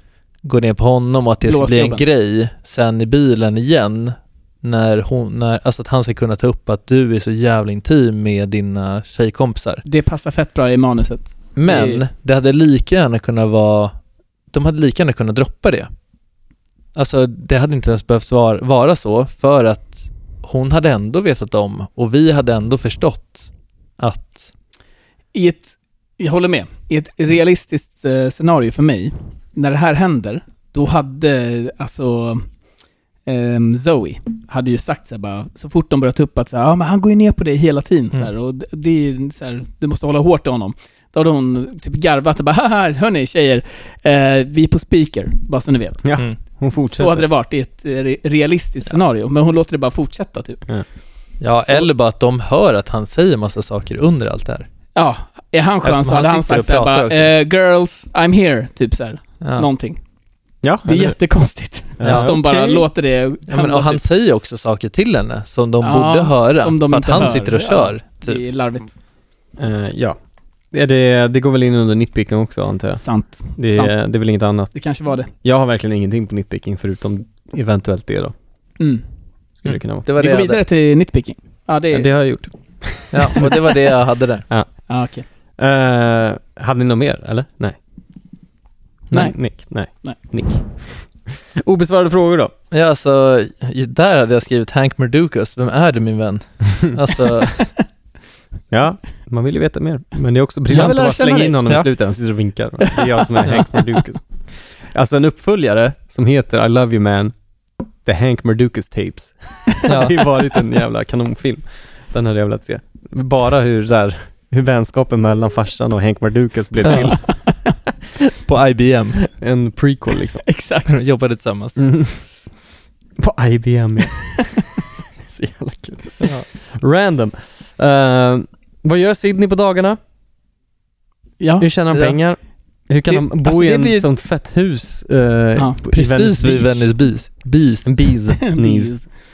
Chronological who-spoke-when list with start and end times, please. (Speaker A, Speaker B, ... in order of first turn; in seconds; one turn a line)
Speaker A: 0.4-9.8
Speaker B: 1.4-2.0
Speaker B: 9.9-12.0
Speaker A: 11.6-13.9
Speaker A: 14.5-15.9
Speaker A: 16.9-24.5
Speaker B: 25.3-32.5
Speaker B: 33.3-46.0
Speaker C: 46.0-47.3
Speaker B: 46.9-50.6
Speaker A: 51.4-54.7
Speaker B: 55.0-60.0
Speaker A: 55.8-57.3
Speaker A: 59.4-59.7
Speaker C: 60.6-61.2
Speaker B: 60.9-64.0
Speaker C: 62.0-62.8
Speaker A: 62.0-62.4
Speaker A: 63.5-68.4
Speaker B: 65.8-68.9
Speaker C: 69.6-70.2
Speaker C: 70.7-73.0
Speaker B: 73.0-74.2
Speaker C: 73.6-74.7
Speaker B: 74.7-75.3
Speaker C: 75.4-78.3
Speaker B: 78.8-79.0
Speaker C: 79.6-80.5
Speaker A: 79.7-80.6
Speaker B: 80.1-82.1
Speaker C: 81.9-83.8
Speaker A: 83.1-84.5
Speaker C: 84.5-84.8
Speaker B: 84.9-85.3
Speaker C: 85.6-87.8
Speaker B: 89.1-90.2
Speaker C: 89.1-91.1
Speaker C: 91.6-92.5
Speaker A: 92.7-97.7
Speaker C: 98.7-107.3
Speaker B: 100.7-101.8
Speaker A: 100.7-101.0
Speaker B: 102.8-103.8
Speaker C: 108.0-117.3
Speaker A: 109.9-110.2
Speaker A: 116.8-117.2
Speaker A: 118.4-119.2
Speaker C: 119.3-120.4
Speaker B: 120.5-120.9
Speaker A: 120.9-121.8
Speaker C: 121.8-122.3
Speaker C: 123.2-124.5
Speaker C: 125.3-130.0
Speaker B: 131.4-131.7
Speaker C: 131.6-137.0
Speaker A: 131.9-132.2
Speaker B: 133.1-134.1
Speaker A: 135.9-138.1
Speaker C: 137.8-139.0
Speaker B: 138.4-139.1